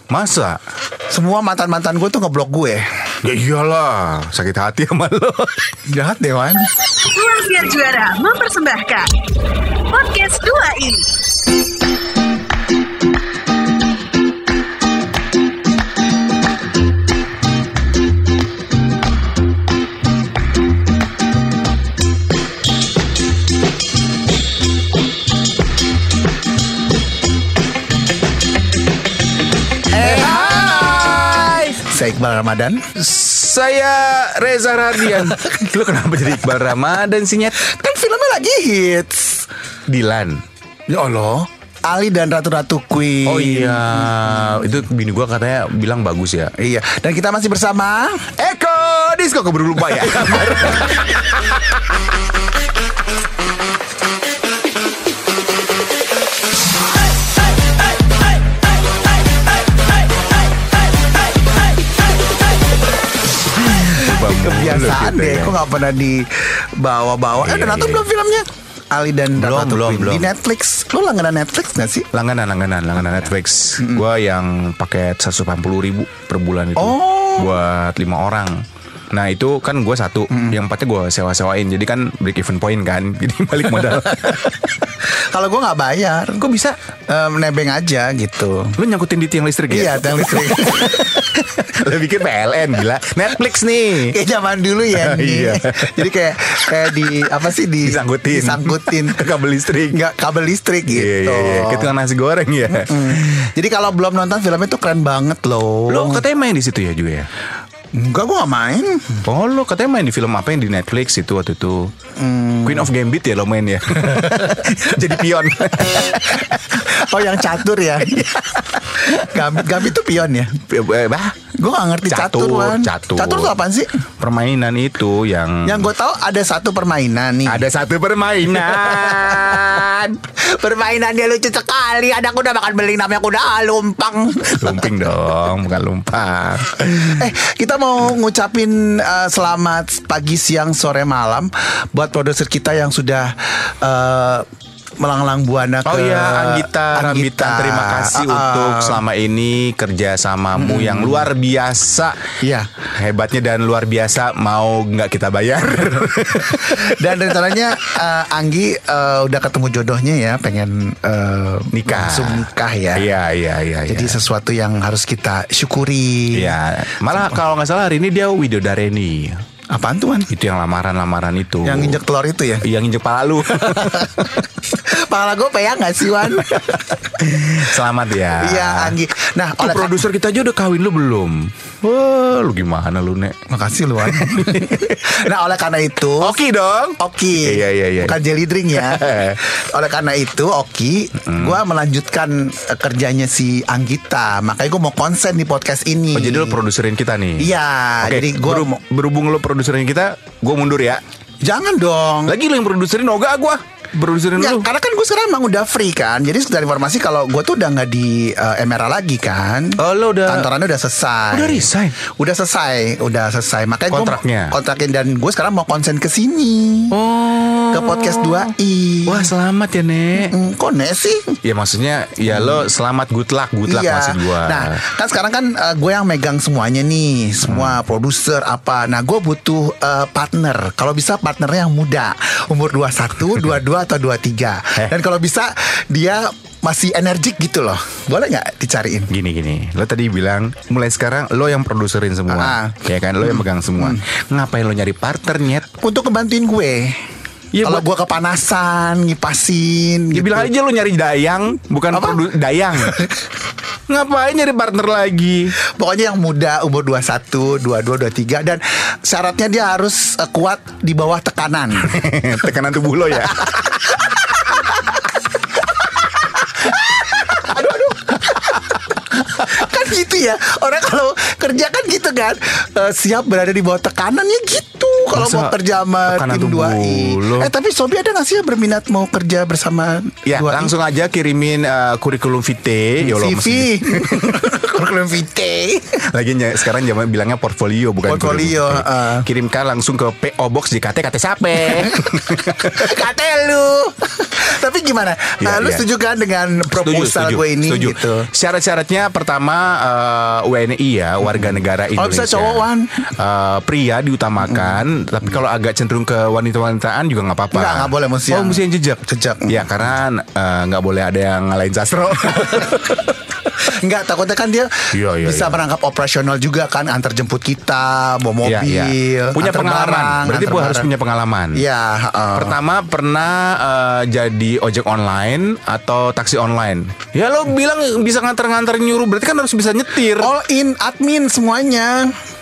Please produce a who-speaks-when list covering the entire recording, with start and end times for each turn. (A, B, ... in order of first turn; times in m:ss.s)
0:00.1-0:00.6 A
0:01.1-0:02.8 B
0:03.2-0:05.7 A
0:05.9-0:06.7 B
0:07.0-0:09.2 C
0:09.9-0:11.1 C
0:29.9-0:31.8 A
0:29.9-0:31.0 B
0:31.7-0:32.8 B
0:33.0-0:37.6 A
0:37.6-0:39.4 B
0:39.9-0:40.4 A
0:40.9-0:44.1 B
0:43.2-0:46.5 A
0:46.6-0:48.3 B
0:48.4-0:52.0 A
1:03.7-1:05.6 A
1:03.7-1:12.1 B
1:07.4-1:08.1 A
1:09.3-1:10.3 A
1:12.1-1:24.7 A
1:16.8-1:17.6 B
1:20.3-1:20.6 B
1:25.3-1:26.4 B
1:26.4-1:26.8 A
1:27.1-1:28.8 B
1:28.8-1:34.2 A
1:29.7-1:31.1 B
1:34.1-1:39.3 B
1:34.9-1:36.1 A
1:36.7-1:40.0 A
1:39.9-1:41.9 B
1:40.9-1:43.5 A
1:42.7-1:46.2 B
1:45.9-1:47.3 A
1:47.9-1:49.2 B
1:49.2-1:51.9 A
1:52.2-1:52.9 B
1:52.6-1:57.3 A
1:56.4-2:00.6 B
1:58.0-1:59.8 A
2:00.7-2:01.4 A
2:01.6-2:03.9 B
2:02.1-2:03.5 A
2:04.2-2:05.9 A
2:05.6-2:07.6 B
2:07.4-2:10.2 A
2:08.6-2:09.7 B
2:10.4-2:15.0 B
2:14.6-2:17.3 A
2:17.0-2:24.4 B
2:25.0-2:29.0 B
2:25.8-2:32.3 A
2:30.5-2:31.3 B
2:32.4-2:32.7 B
2:32.9-2:37.4 A
2:36.4-2:43.1 B
2:41.7-2:44.2 A
2:43.9-2:46.6 B
2:46.3-2:49.4 A
2:49.7-2:50.3 B
2:50.3-2:52.0 A
2:51.6-2:52.6 B
2:52.6-2:54.5 A
2:53.7-2:54.1 B
2:54.6-2:57.5 B
2:56.2-2:59.0 A
2:58.4-3:00.0 B
2:59.6-3:03.3 A
3:03.5-3:06.3 B
3:04.0-3:05.3 A
3:06.2-3:08.2 A
3:07.0-3:16.6 B
3:08.7-3:09.4 A
3:11.2-3:11.6 A
3:16.1-3:21.0 A
3:17.4-3:18.8 B
3:21.4-3:22.4 B
3:22.3-3:24.7 A
3:24.4-3:37.0 B
3:29.8-3:30.5 A
3:31.3-3:32.0 A
3:33.9-3:34.6 A
3:36.9-3:38.5 A
3:37.7-3:39.3 B
3:39.0-3:40.3 A
3:40.2-3:41.4 B
3:41.4-3:44.8 A
3:42.3-3:42.6 B
3:43.7-3:59.1 B
3:47.4-3:47.8 A
3:59.1-4:05.7 A
4:02.3-4:04.0 B
4:05.8-4:07.0 B
4:07.5-4:07.9 A
4:07.6-4:10.5 B
4:10.1-4:13.0 A
4:11.9-4:12.2 B
4:12.7-4:13.2 B
4:13.9-4:15.5 A
4:15.8-4:22.0 B
4:21.8-4:23.9 A
4:23.4-4:24.6 B
4:26.6-4:40.7 B
4:35.1-4:37.5 A
4:40.2-4:44.5 A
4:43.0-4:46.0 B
4:46.0-4:52.9 A
4:48.1-4:49.3 B
4:51.9-4:58.3 B
4:55.4-4:55.8 A
4:56.7-5:13.1 A
5:01.2-5:03.0 B
5:04.5-5:04.8 B
5:07.5-5:09.7 B
5:13.6-5:20.9 B
5:14.9-5:15.6 A
5:18.4-5:21.6 A
5:21.5-5:22.6 B
5:22.3-5:30.3 A
5:30.2-5:32.2 B